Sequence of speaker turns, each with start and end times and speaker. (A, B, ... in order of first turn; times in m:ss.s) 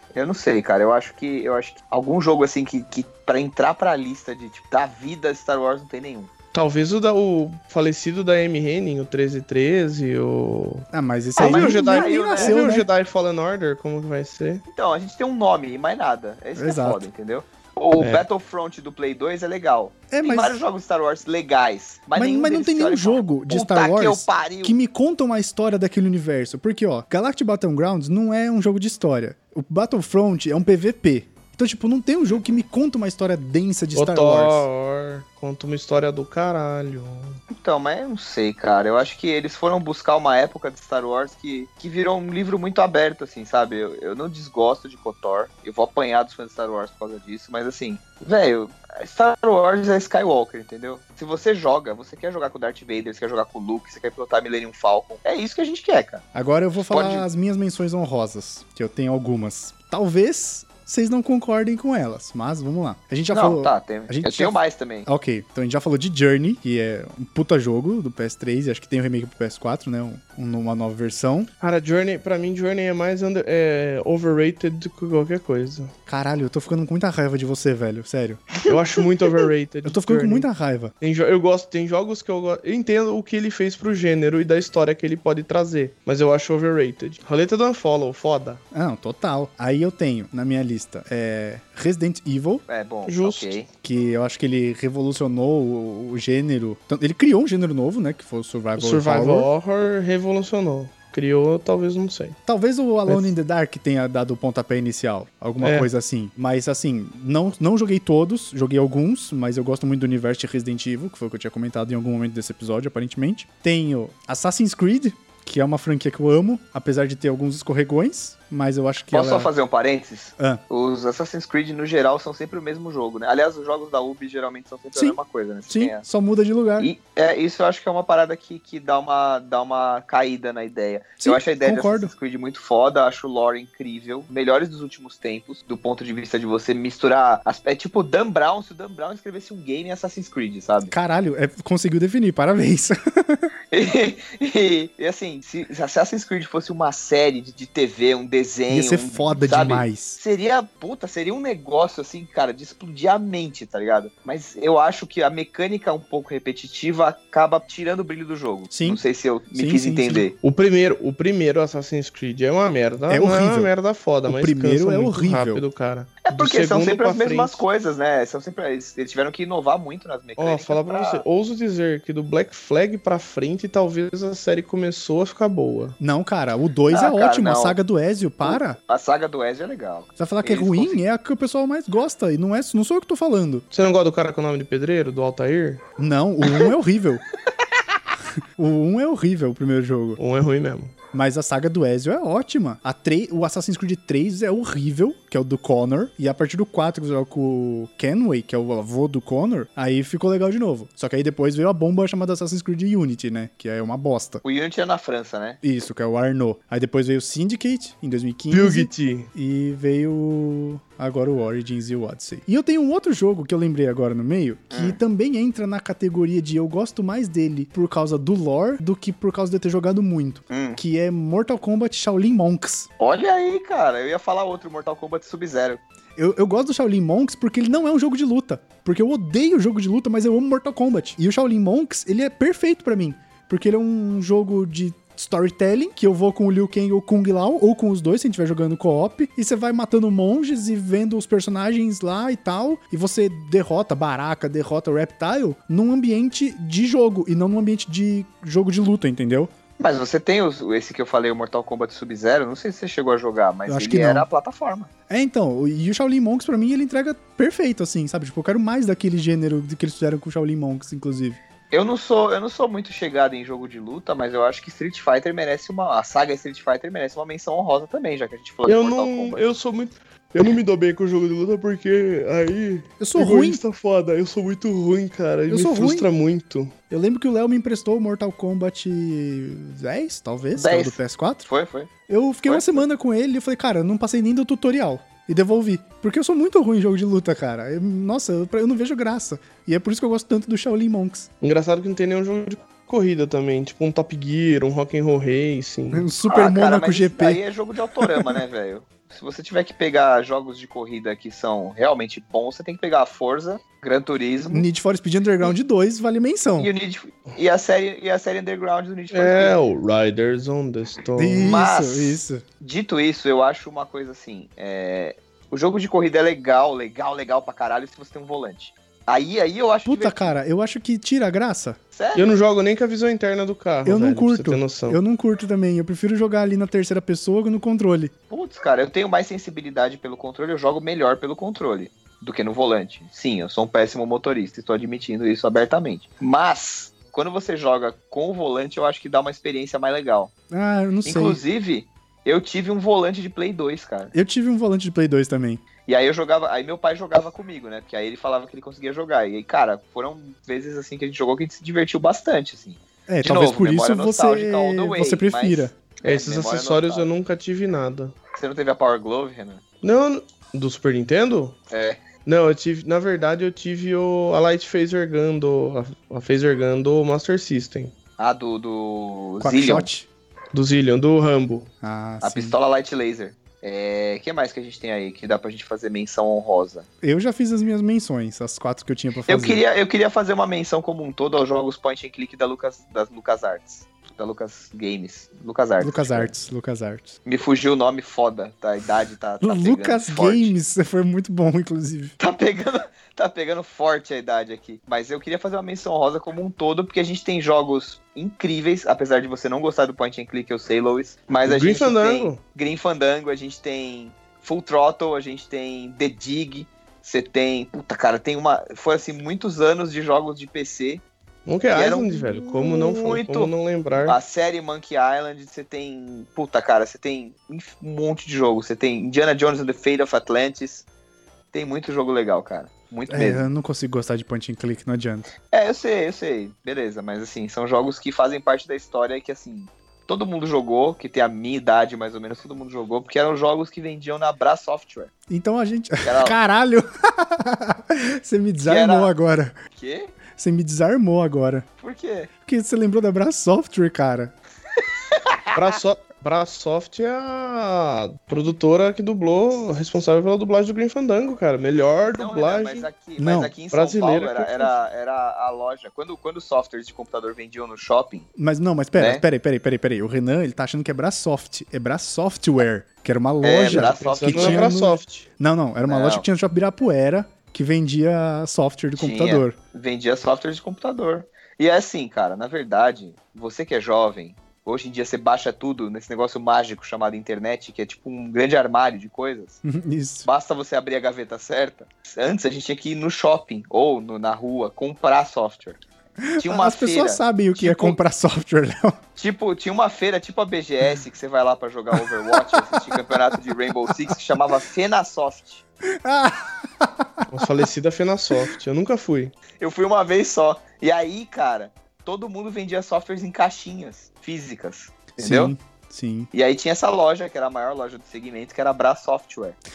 0:00.1-0:06.3 A
0:06.5-0:10.9 B
0:10.9-0:12.9 C
0:11.4-0:12.6 A
0:11.4-0:14.6 B
0:14.7-0:24.8 A
0:16.6-0:17.0 C
0:18.0-0:18.2 B
0:20.1-0:20.6 C
0:22.1-0:34.7 C
0:33.9-0:37.4 B
0:37.5-0:56.2 A
0:56.3-1:11.5 C
0:56.9-0:57.3 A
1:03.3-1:05.1 A
1:11.6-1:15.9 B
1:16.1-1:18.6 C
1:18.7-1:20.5 B
1:19.8-1:20.9 C
1:21.0-1:28.6 B
1:28.7-1:32.6 C
1:32.7-1:33.7 A
1:33.0-1:33.5 B
1:33.8-1:39.5 C
1:38.8-1:42.4 B
1:42.5-1:59.5 C
1:45.6-1:45.9 B
1:59.1-2:06.0 A
2:05.7-2:06.9 C
2:06.8-2:20.9 A
2:11.2-2:12.1 C
2:20.9-2:23.5 C
2:23.7-2:40.4 A
2:28.7-2:30.2 C
2:38.7-2:39.0 C
2:39.5-2:40.2 C
2:40.4-2:47.6 B
2:43.1-2:43.7 C
2:44.3-2:45.6 C
2:46.2-2:51.2 A
2:50.4-2:56.0 B
2:56.0-2:58.8 C
2:56.9-2:57.8 A
2:58.4-3:01.0 A
3:00.2-3:03.6 C
3:03.7-3:05.8 B
3:06.0-3:07.2 C
3:08.6-3:10.2 C
3:10.2-3:10.9 B
3:11.1-3:24.4 C
3:24.4-3:25.6 A
3:25.6-3:42.9 C
3:28.5-3:29.3 B
3:34.7-3:35.0 A
3:40.5-3:40.8 A
3:43.0-3:45.8 A
3:46.2-4:09.5 C
4:09.8-4:14.9 A
4:13.6-4:14.3 C
4:15.1-4:21.4 C
4:21.7-4:29.5 A
4:28.6-4:36.7 B
4:33.0-4:33.6 C
4:35.5-4:36.1 C
4:36.9-4:41.5 C
4:40.5-4:41.9 A
4:42.1-4:51.3 C
4:42.4-4:42.8 A
4:51.4-4:56.1 B
4:55.9-4:57.4 C
4:56.3-5:04.7 A
4:58.0-4:58.4 C
5:04.5-5:06.7 C
5:06.6-5:09.5 A
5:09.1-5:11.5 B
5:11.2-5:12.4 C
5:11.4-5:20.4 A
5:19.9-5:21.8 C
5:21.9-5:22.4 A
5:22.1-5:25.0 B
5:23.9-5:28.1 C
5:28.3-5:40.3 A
5:40.5-5:41.4 C
5:41.0-5:44.1 A
5:44.1-5:45.6 C
5:45.9-5:57.1 A
5:53.1-5:55.7 C
5:56.0-5:58.1 B
5:58.3-5:59.6 A
5:59.8-6:01.6 B
6:01.7-6:02.0 A
6:02.2-6:07.9 B
6:08.2-6:09.9 A
6:09.4-6:10.1 C
6:10.5-6:11.7 B
6:11.8-6:12.5 C
6:12.2-6:16.9 A
6:17.0-6:19.6 C
6:19.3-6:26.3 A
6:25.8-6:27.2 C
6:27.2-6:30.5 A
6:29.4-6:32.1 C
6:32.2-6:51.0 A
6:41.4-6:42.4 B
6:51.4-6:54.2 B
6:51.7-7:00.9 A
7:01.5-7:03.4 A
7:03.1-7:05.3 C
7:05.5-7:15.1 A
7:15.3-7:19.5 C
7:16.0-7:16.4 A
7:18.6-7:19.1 A
7:19.8-7:20.1 A
7:20.4-7:21.6 C
7:21.8-7:22.3 A
7:22.4-7:24.3 C
7:25.1-7:25.6 A
7:25.5-7:32.9 B
7:32.1-7:38.2 A
7:33.2-7:33.5 C
7:33.7-7:34.8 B
7:38.4-7:49.6 C
7:39.0-7:39.2 A
7:43.4-7:44.7 A
7:43.6-7:45.3 B
7:45.9-7:46.2 A
7:49.0-7:59.6 A
7:59.6-8:00.3 C
8:00.2-8:05.8 A
8:06.2-8:09.0 C
8:06.4-8:08.0 A
8:09.2-8:15.6 A
8:11.9-8:13.4 C
8:13.9-8:14.2 C
8:15.9-8:17.6 C
8:17.3-8:19.3 B
8:19.6-8:25.5 A
8:25.2-8:26.3 C
8:26.3-8:29.6 A